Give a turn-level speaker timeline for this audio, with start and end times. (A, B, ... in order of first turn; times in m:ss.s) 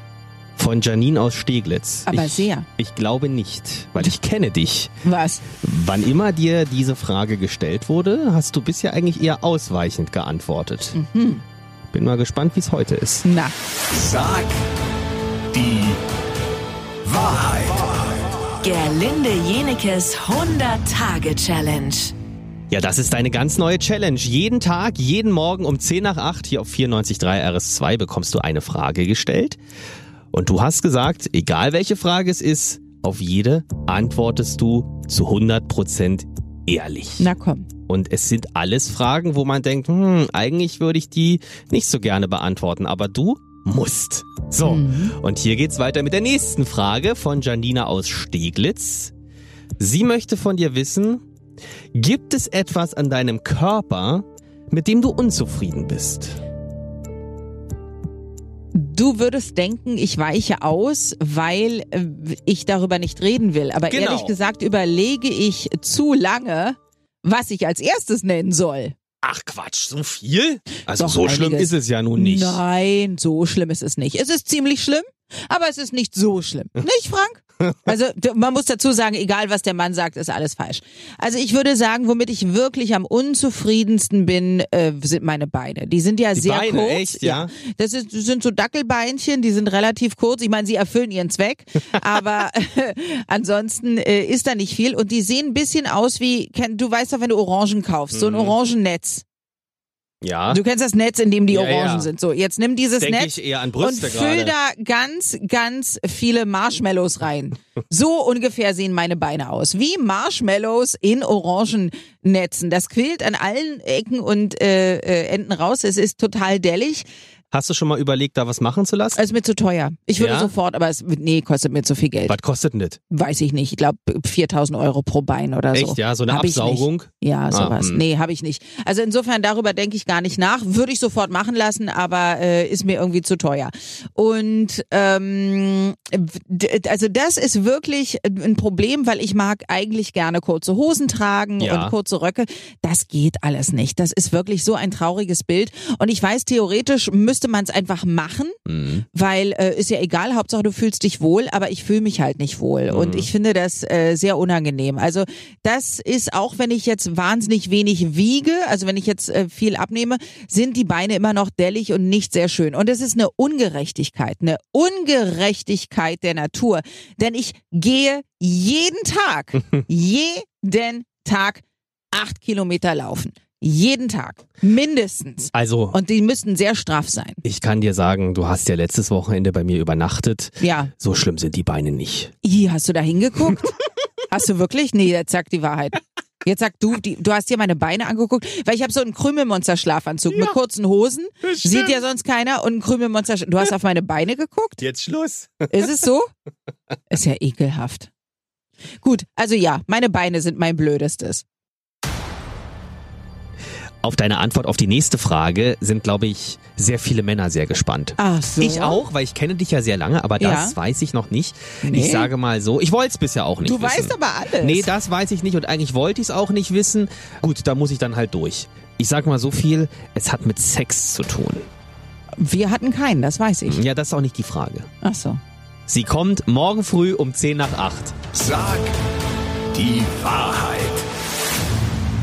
0:00.6-0:04.9 A
0:02.1-0:02.7 B
0:05.0-0:05.5 B
0:05.5-0:11.0 A
0:11.0-0:11.4 B
0:11.9-0:13.3 A
0:13.2-0:13.5 B
0:14.0-0:14.5 C
0:15.6-0:15.9 C
0:17.1-0:17.8 C
0:18.6-0:22.1 D
0:22.7-0:29.6 A
0:30.3-0:37.3 A
0:37.2-0:37.7 B
0:37.9-0:49.1 A
0:44.6-0:45.2 B
0:49.8-0:51.2 A
0:51.9-0:56.4 A
0:58.8-1:09.0 B
1:03.9-1:04.3 A
1:09.2-1:12.6 A
1:10.9-1:39.2 B
1:17.6-1:17.9 A
1:26.3-1:27.5 A
1:38.1-1:38.6 A
1:40.2-1:40.6 A
1:40.5-1:57.1 B
1:41.5-1:42.1 A
1:43.0-1:44.6 A
1:57.5-1:59.2 A
1:59.2-2:02.4 B
2:00.2-2:00.5 A
2:02.3-2:03.0 A
2:03.1-2:28.6 B
2:05.7-2:08.0 A
2:21.6-2:22.0 A
2:28.7-2:29.0 A
2:29.1-2:51.6 B
2:32.9-2:33.3 A
2:52.1-2:57.4 B
2:55.5-2:56.0 A
2:57.4-3:02.3 A
3:00.6-3:00.9 B
3:02.4-3:03.7 B
3:04.3-3:14.8 B
3:11.4-3:12.0 A
3:14.8-3:15.9 A
3:15.7-3:16.3 B
3:17.1-3:18.1 B
3:19.0-3:21.4 B
3:24.0-3:41.7 A
3:28.2-3:29.0 B
3:30.4-3:30.8 B
3:31.8-3:32.3 B
3:33.6-3:34.9 B
3:42.4-3:43.8 B
3:43.7-3:44.9 A
3:45.0-3:45.4 B
3:45.9-3:48.2 A
3:48.4-3:48.8 C
3:49.8-3:51.0 C